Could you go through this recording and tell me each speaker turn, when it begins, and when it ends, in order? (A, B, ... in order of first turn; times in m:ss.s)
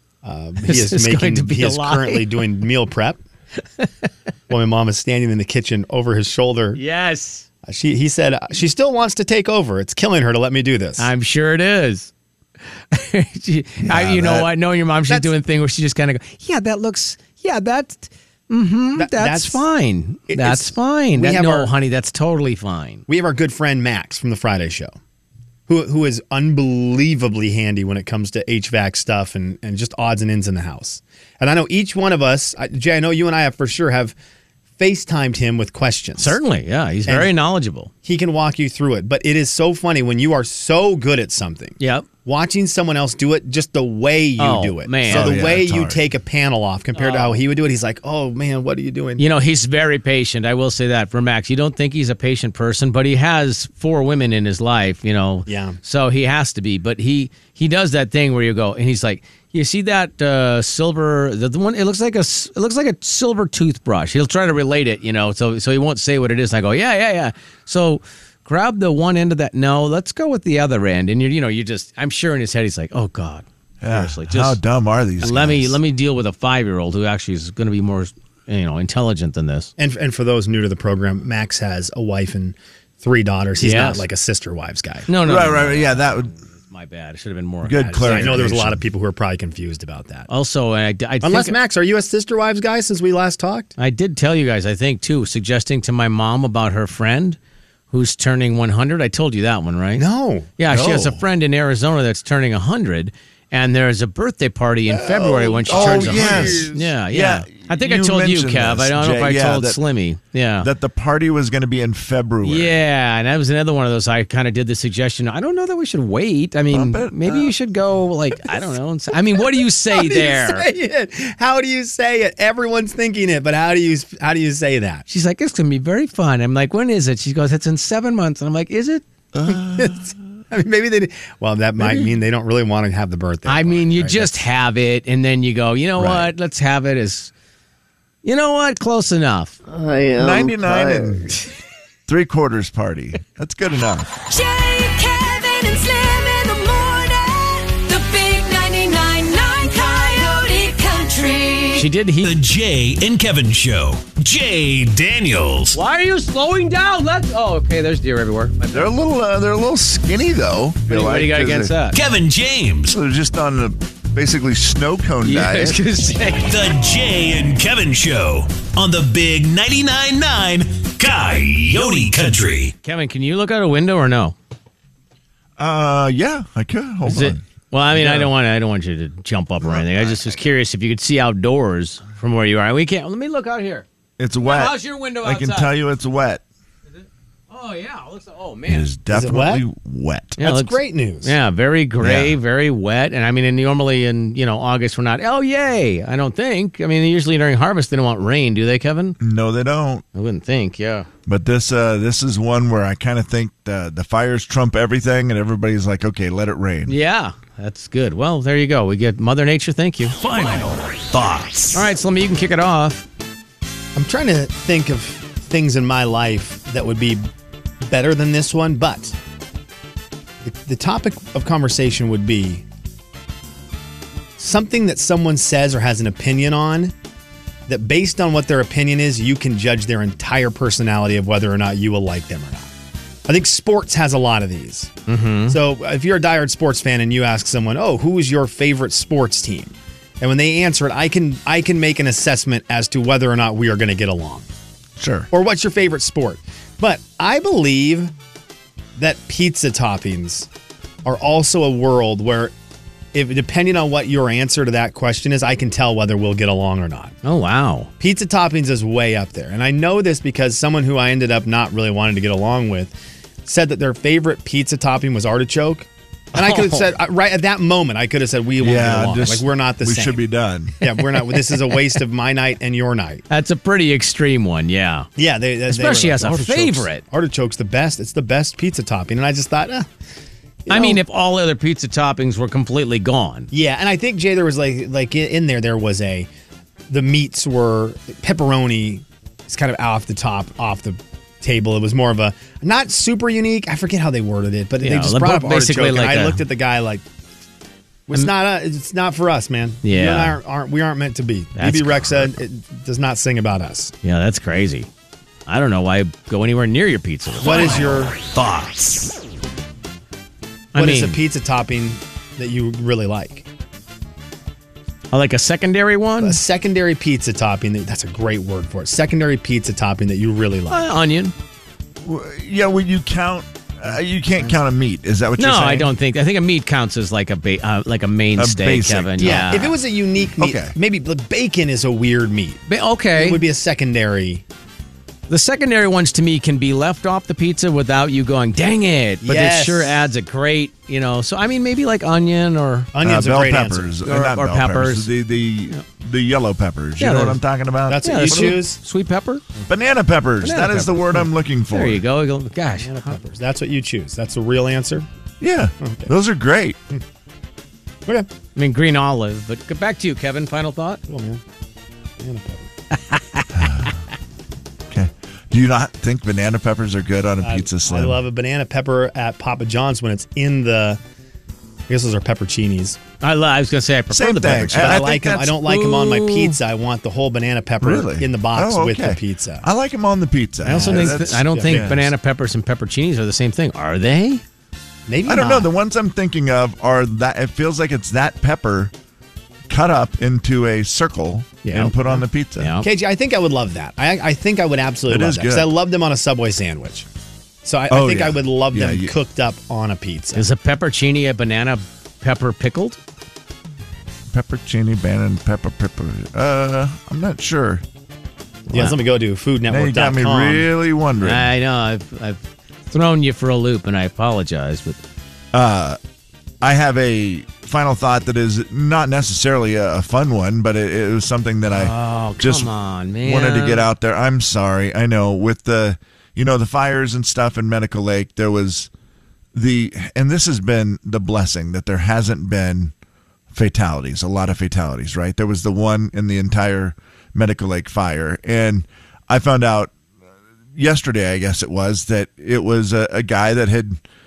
0:00.2-0:03.2 A
0:00.6-0:02.3 B
0:04.5-0:06.8 A
0:06.7-0:07.4 B
0:07.6-0:11.1 A
0:11.0-0:12.1 B
0:12.9-0:23.0 B
0:13.8-0:14.5 C
0:18.9-0:19.6 A
0:20.3-0:21.7 A
0:23.1-0:24.9 A
0:25.7-0:34.1 A
0:34.8-0:36.4 A
0:36.2-0:37.9 B
0:37.0-0:37.3 A
0:38.0-0:49.2 A
0:41.8-0:42.1 B
0:44.4-0:45.4 B
0:45.1-0:46.0 C
0:46.9-0:47.4 B
0:49.2-1:14.6 B
0:55.5-0:55.8 A
1:13.8-1:15.8 C
1:15.2-1:19.7 B
1:19.8-1:25.1 A
1:23.6-1:24.0 B
1:25.1-1:28.4 B
1:25.2-1:26.3 C
1:27.6-1:28.8 C
1:27.8-1:30.3 A
1:30.3-1:31.6 B
1:31.2-1:33.7 A
1:33.8-1:37.4 B
1:37.9-1:40.0 B
1:40.0-1:40.5 A
1:40.6-1:50.7 B
1:40.7-1:41.2 C
1:44.9-1:49.8 C
1:45.7-1:46.6 A
1:50.6-1:52.7 C
1:52.4-2:00.6 B
1:56.7-1:57.5 C
1:59.9-2:05.0 A
2:05.1-2:09.0 B
2:09.3-2:10.1 C
2:09.4-2:14.4 A
2:13.4-2:17.3 B
2:18.2-2:19.6 B
2:20.1-2:21.5 C
2:22.1-2:24.1 C
2:24.2-2:31.9 D
2:31.7-2:32.3 B
2:32.2-2:35.8 E
2:35.7-2:38.9 B
2:38.7-2:41.8 C
2:40.9-2:42.0 B
2:41.9-2:42.9 E
2:42.9-2:45.9 C
2:45.2-2:46.5 B
2:46.4-2:52.7 E
2:52.8-2:54.4 B
2:55.6-2:57.4 C
2:57.0-3:03.8 B
2:57.9-2:58.3 C
2:59.6-3:00.4 C
3:04.2-3:06.4 C
3:04.4-3:05.7 B
3:06.9-3:08.9 B
3:08.7-3:10.4 C
3:09.1-3:09.6 A
3:10.4-3:19.2 B
3:10.4-3:11.3 A
3:12.0-3:12.4 C
3:19.2-3:20.0 C
3:20.1-3:21.1 B
3:21.2-3:26.9 C
3:26.9-3:30.2 B
3:30.2-3:31.8 E
3:31.7-3:33.1 B
3:33.9-3:37.3 A
3:37.8-3:39.2 A
3:40.4-3:42.6 A
3:44.4-3:46.9 A
3:47.7-3:52.7 A
3:53.3-3:54.9 A
3:55.1-3:55.6 B
3:55.5-4:04.5 A
4:05.0-4:05.3 C
4:05.3-4:08.1 A
4:09.0-4:10.5 A
4:11.0-4:12.5 A
4:13.1-4:17.1 A
4:17.2-4:17.9 B
4:18.0-4:30.2 A
4:26.3-4:26.9 B
4:28.6-4:30.8 C
4:30.8-4:33.2 A
4:33.3-4:35.1 B
4:35.2-4:39.9 A
4:35.7-4:37.0 B
4:40.6-4:41.0 A
4:40.7-4:43.5 B
4:43.5-4:46.3 A
4:46.9-4:57.0 A
4:54.8-4:56.4 B
4:58.1-5:03.9 A
4:59.8-5:00.4 B
5:01.6-5:02.3 B
5:04.0-5:04.9 B
5:05.5-5:07.9 B
5:07.4-5:08.2 A
5:08.3-5:09.0 E
5:10.7-5:11.2 B
5:10.7-5:13.5 A
5:15.1-5:16.4 B
5:16.2-5:20.9 A
5:20.7-5:21.3 B
5:22.0-5:25.9 C
5:25.4-5:29.7 B
5:28.4-5:29.7 C
5:29.2-5:34.4 A
5:30.4-5:30.7 C
5:32.7-5:33.4 B
5:35.3-5:42.9 B
5:39.2-5:40.0 A
5:42.9-5:43.9 A
5:43.0-5:48.6 C
5:44.0-5:45.1 B
5:47.0-5:47.4 B
5:47.9-5:48.8 A
5:48.0-5:49.4 B
5:49.7-5:52.0 C
5:50.4-5:53.2 B
5:52.8-5:55.0 A
5:55.4-5:56.8 C
5:55.8-5:56.1 A
5:58.6-6:01.0 B
6:01.1-6:01.4 A
6:02.2-6:02.7 A
6:03.1-6:03.6 B
6:03.5-6:04.0 C
6:04.9-6:08.2 C
6:07.4-6:11.0 A
6:11.9-6:13.0 A
6:13.2-6:16.6 B
6:14.1-6:15.6 C
6:14.7-6:19.6 A
6:17.8-6:22.1 C
6:20.6-6:24.4 B
6:20.6-6:22.0 A
6:25.1-6:25.7 A
6:25.2-6:28.9 C
6:29.7-6:32.7 C
6:31.6-6:32.0 B
6:32.6-6:32.9 B
6:32.8-6:37.1 A
6:35.1-6:35.7 C
6:37.6-6:40.5 A
6:37.9-6:39.1 C
6:40.3-6:43.0 B
6:44.3-6:47.8 C
6:48.7-6:50.7 A
6:48.7-6:49.0 B
6:49.7-6:51.5 C
6:51.2-6:55.0 B
6:55.5-6:56.0 C
6:56.6-7:02.7 C
7:01.7-7:03.9 B
7:03.2-7:08.9 C
7:09.5-7:12.9 C
7:13.5-7:19.9 C
7:20.8-7:24.0 C